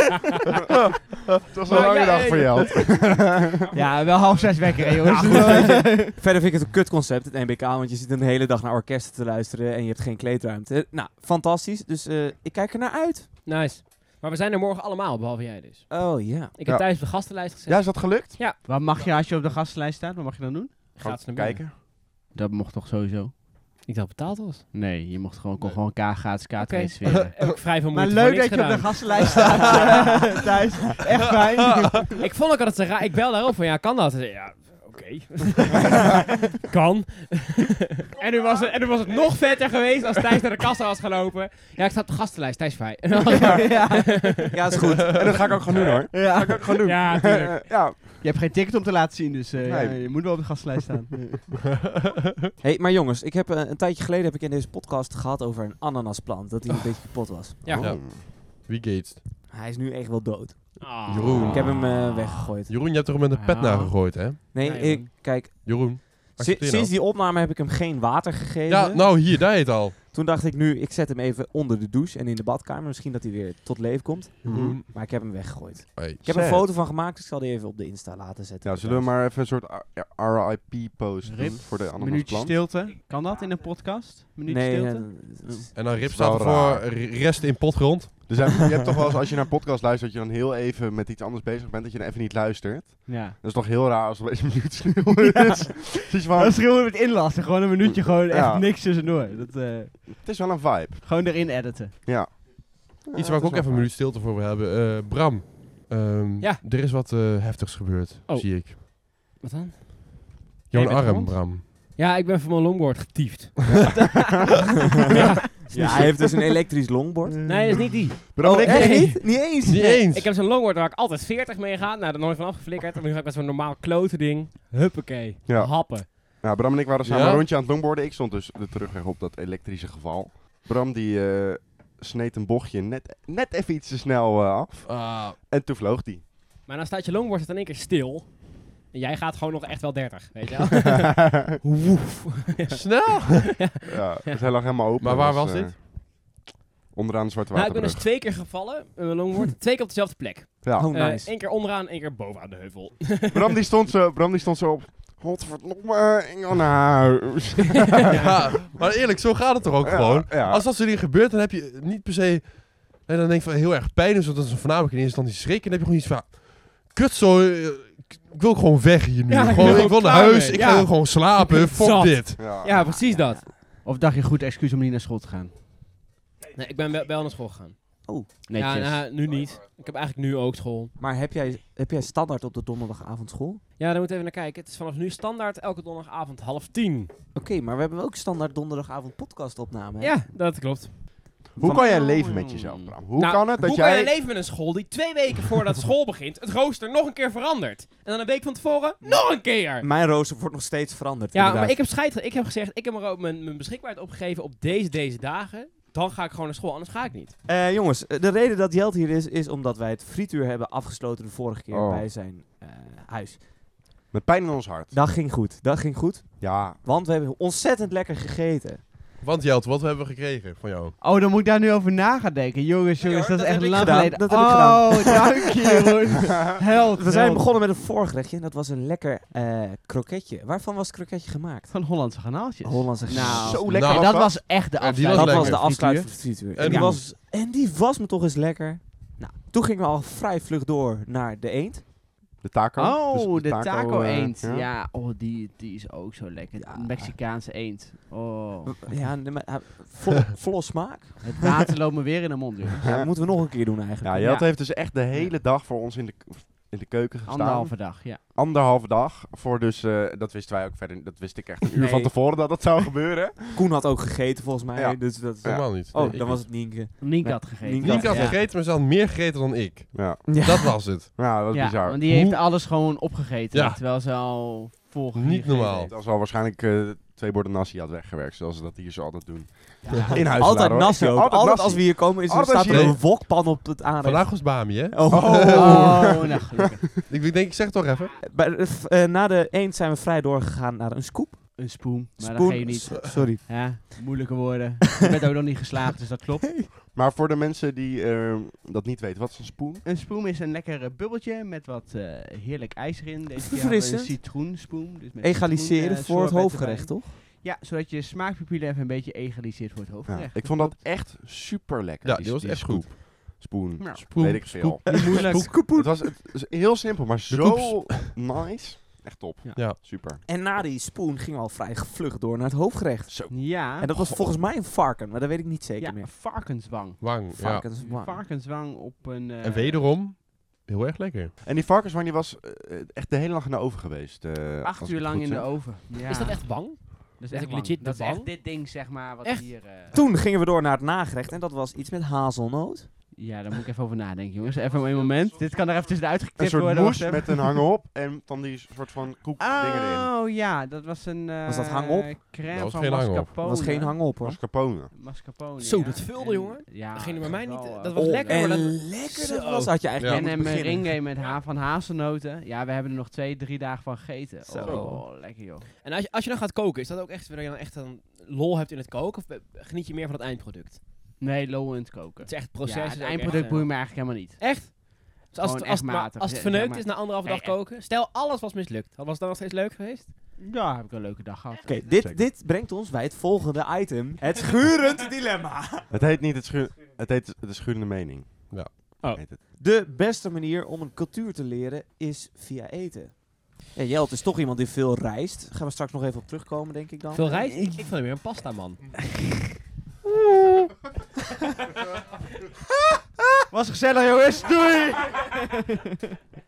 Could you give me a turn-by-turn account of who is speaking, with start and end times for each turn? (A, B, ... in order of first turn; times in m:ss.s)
0:01.5-0:03.6 A
0:01.7-0:03.0 B
0:03.7-0:06.1 C
0:05.3-0:13.3 D
0:05.3-0:05.8 B
0:13.5-0:18.6 B
0:15.9-0:16.5 D
0:16.6-0:18.4 A
0:18.6-0:20.8 C
0:21.0-0:21.6 B
0:21.0-0:21.8 A
0:22.3-0:23.4 C
0:23.9-0:24.7 B
0:24.7-0:32.1 C
0:25.6-0:30.4 B
0:29.4-0:29.8 E
0:32.1-0:44.5 B
0:43.3-0:44.5 C
0:44.5-0:45.4 D
0:45.1-0:48.0 A
0:46.1-0:46.8 C
0:46.8-0:47.7 B
0:48.2-0:51.3 C
0:49.6-0:50.6 A
0:52.6-0:57.8 D
0:57.6-0:57.9 B
0:57.7-0:58.3 A
0:57.8-0:59.2 E
0:59.5-1:02.8 D
1:00.8-1:01.7 B
1:01.0-1:04.5 E
1:03.3-1:04.1 C
1:04.5-1:19.1 D
1:04.6-1:05.1 B
1:05.6-1:06.9 E
1:08.7-1:10.0 E
1:14.4-1:14.8 A
1:14.4-1:14.9 E
1:16.0-1:16.2 E
1:16.2-1:16.7 A
1:18.6-1:22.6 A
1:21.2-1:25.7 C
1:24.5-1:25.7 D
1:25.8-1:28.4 E
1:26.0-1:27.0 A
1:28.3-1:36.7 A
1:33.1-1:33.4 C
1:35.2-1:40.2 C
1:37.8-1:38.7 A
1:40.1-1:41.3 A
1:41.0-1:42.0 C
1:42.0-1:43.9 A
1:43.1-1:48.8 E
1:48.3-1:48.8 B
1:49.4-1:56.1 B
1:50.7-1:51.6 E
1:55.5-1:57.9 D
1:57.4-1:58.0 C
1:57.5-2:06.1 B
1:58.3-1:59.2 A
1:58.4-2:00.0 D
1:59.6-2:00.3 E
2:05.5-2:16.2 A
2:07.0-2:07.5 E
2:14.8-2:15.4 E
2:16.7-2:24.4 B
2:20.8-2:21.4 A
2:22.7-2:23.6 E
2:23.8-2:25.9 A
2:25.0-2:25.8 E
2:26.9-2:28.1 A
2:27.5-2:33.6 B
2:30.6-2:30.9 A
2:30.7-2:31.3 D
2:33.3-2:38.4 A
2:38.1-2:52.4 E
2:39.8-2:40.7 A
2:49.3-2:53.5 B
2:49.6-2:49.9 A
2:52.4-2:52.7 A
2:52.8-2:53.4 D
2:53.6-2:55.5 C
2:56.5-2:57.8 B
2:58.0-2:58.3 D
2:58.5-2:59.0 C
2:58.5-3:00.9 B
3:01.0-3:03.6 D
3:03.8-3:07.1 B
3:07.4-3:10.2 D
3:10.0-3:11.0 B
3:11.6-3:12.9 C
3:11.6-3:14.1 A
3:13.2-3:19.9 B
3:19.3-3:21.8 D
3:21.3-3:27.3 B
3:27.5-3:33.5 D
3:31.7-3:32.1 A
3:34.1-3:35.0 A
3:34.9-3:38.9 D
3:36.4-3:36.8 A
3:39.2-3:41.0 E
3:41.0-3:47.5 C
3:43.0-3:44.0 B
3:43.7-3:45.2 D
3:47.0-3:51.9 D
3:51.7-3:57.0 C
3:52.6-3:53.7 D
3:53.2-3:54.5 A
3:53.7-3:56.0 E
3:55.1-4:01.9 D
3:56.6-3:57.0 E
4:02.4-4:04.7 A
4:02.8-4:08.9 C
4:06.6-4:07.1 D
4:08.6-4:11.6 D
4:11.2-4:12.8 C
4:12.8-4:14.4 D
4:12.8-4:23.6 A
4:14.2-4:15.3 C
4:17.2-4:18.2 C
4:21.8-4:22.1 C
4:23.5-4:28.4 D
4:24.8-4:26.2 A
4:25.4-4:26.5 E
4:27.0-4:28.4 C
4:27.8-4:31.2 E
4:29.9-4:30.4 A
4:30.3-4:30.8 D
4:31.1-4:32.0 A
4:31.5-4:35.9 C
4:32.0-4:32.5 E
4:33.5-4:33.8 E
4:35.1-4:35.9 E
4:35.9-4:43.0 A
4:39.8-4:40.3 C
4:40.1-4:46.2 D
4:42.6-4:43.0 E
4:44.0-4:46.2 E
4:45.1-4:47.0 A
4:45.5-4:46.8 C
4:47.1-4:48.1 E
4:48.2-4:54.0 D
4:51.6-4:56.6 C
4:56.9-4:59.8 A
4:59.8-5:10.8 C
5:03.5-5:04.2 D
5:05.2-5:07.1 D
5:10.1-5:20.2 A
5:12.0-5:13.1 E
5:13.8-5:15.6 C
5:14.0-5:15.6 E
5:14.9-5:16.1 D
5:17.3-5:18.2 E
5:19.6-5:19.8 E
5:20.2-5:26.1 D
5:23.1-5:24.3 A
5:23.3-5:23.9 C
5:25.8-5:29.9 C
5:27.0-5:27.7 E
5:27.3-5:28.2 D
5:29.4-5:31.3 E
5:31.4-5:35.5 A
5:34.6-5:40.0 C
5:36.1-5:38.5 B
5:39.9-5:43.1 D
5:43.1-5:47.6 C
5:46.4-5:50.1 A
5:49.4-5:54.0 C
5:51.5-5:52.2 D
5:52.5-5:53.3 E
5:53.4-5:54.4 D
5:54.2-5:54.9 A
5:54.9-5:58.5 C
5:55.6-5:59.7 B
5:58.0-6:01.0 D
6:00.0-6:05.7 C
6:04.5-6:05.0 D
6:05.8-6:10.8 B
6:11.2-6:14.9 C
6:12.2-6:20.1 B
6:15.4-6:17.6 C
6:20.4-6:21.8 C
6:21.6-6:25.9 D
6:25.9-6:29.4 A
6:28.5-6:29.0 E
6:29.6-6:37.6 D
6:37.1-6:39.0 B
6:43.5-6:45.9 C